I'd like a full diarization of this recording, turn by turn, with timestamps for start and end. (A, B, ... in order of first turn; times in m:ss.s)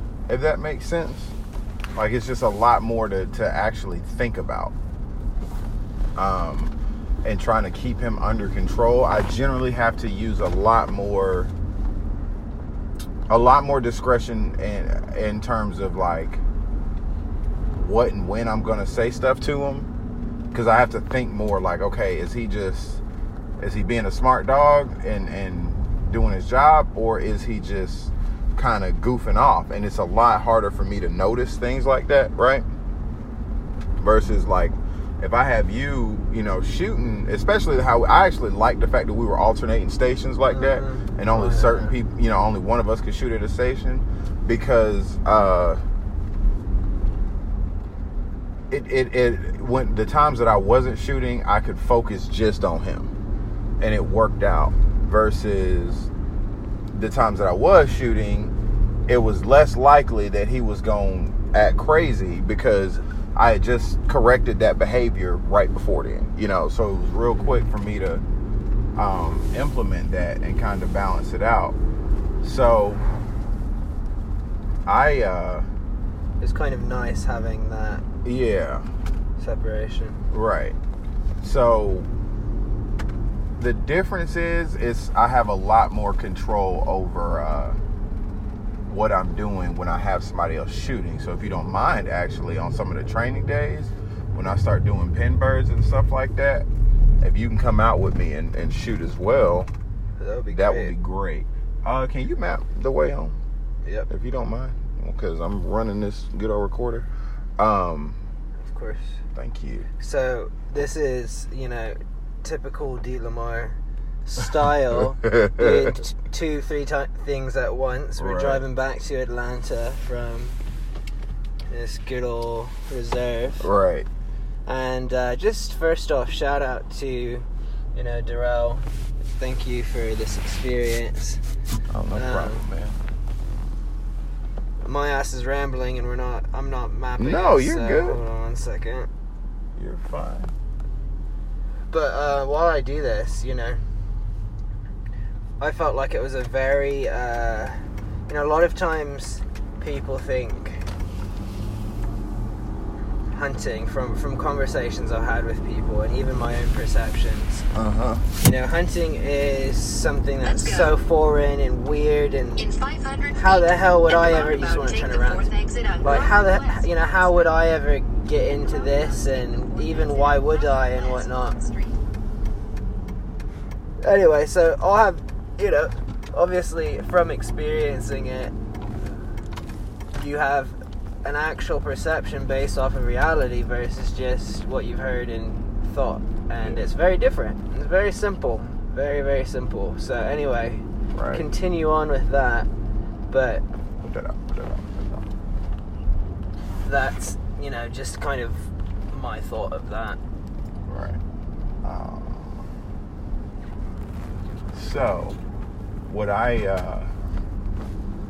0:00.3-0:01.4 A
0:02.0-0:04.7 A
0:06.2-0:11.5 A
0:13.3-0:16.4 A
0:17.7-0:19.9 A
0:20.5-0:23.0 A
0:23.6-0:32.7 A
0:34.0-0:45.8 A
0:40.5-0:42.0 B
0:48.7-0:53.1 A
0:53.8-0:56.1 A
0:56.9-0:58.5 A
0:59.1-1:08.2 A
1:09.0-1:11.8 A
1:12.4-1:13.0 A
1:14.9-1:15.7 A
1:16.4-1:18.0 B
1:18.2-1:18.9 A
1:19.4-1:20.2 B
1:20.3-1:20.8 A
1:21.4-1:22.1 A
1:23.6-1:27.8 A
1:28.9-1:36.7 A
1:37.2-1:39.7 A
1:40.2-1:40.9 B
1:40.5-1:43.4 A
1:44.1-1:48.2 A
1:48.6-1:49.2 B
1:49.4-1:49.9 A
1:50.0-2:00.6 B
1:54.9-1:56.0 A
1:58.2-1:58.6 A
2:01.7-2:03.7 B
2:03.6-2:04.1 A
2:04.7-2:11.4 B
2:11.9-2:13.0 A
2:12.1-2:12.6 B
2:14.8-2:19.1 B
2:17.2-2:18.2 A
2:19.8-2:20.6 A
2:21.9-2:23.8 B
2:25.6-2:30.8 B
2:33.3-2:37.6 B
2:37.7-2:38.2 A
2:38.4-2:42.7 B
2:40.4-2:41.0 C
2:42.6-2:47.7 C
2:43.3-2:51.6 B
2:48.6-2:52.0 C
2:54.0-2:58.5 B
3:00.1-3:12.7 B
3:11.2-3:11.5 A
3:13.3-3:13.6 B
3:14.0-3:15.3 A
3:16.8-3:20.2 B
3:20.9-3:21.2 A
3:21.8-3:22.7 A
3:24.7-3:25.4 A
3:26.1-3:27.1 A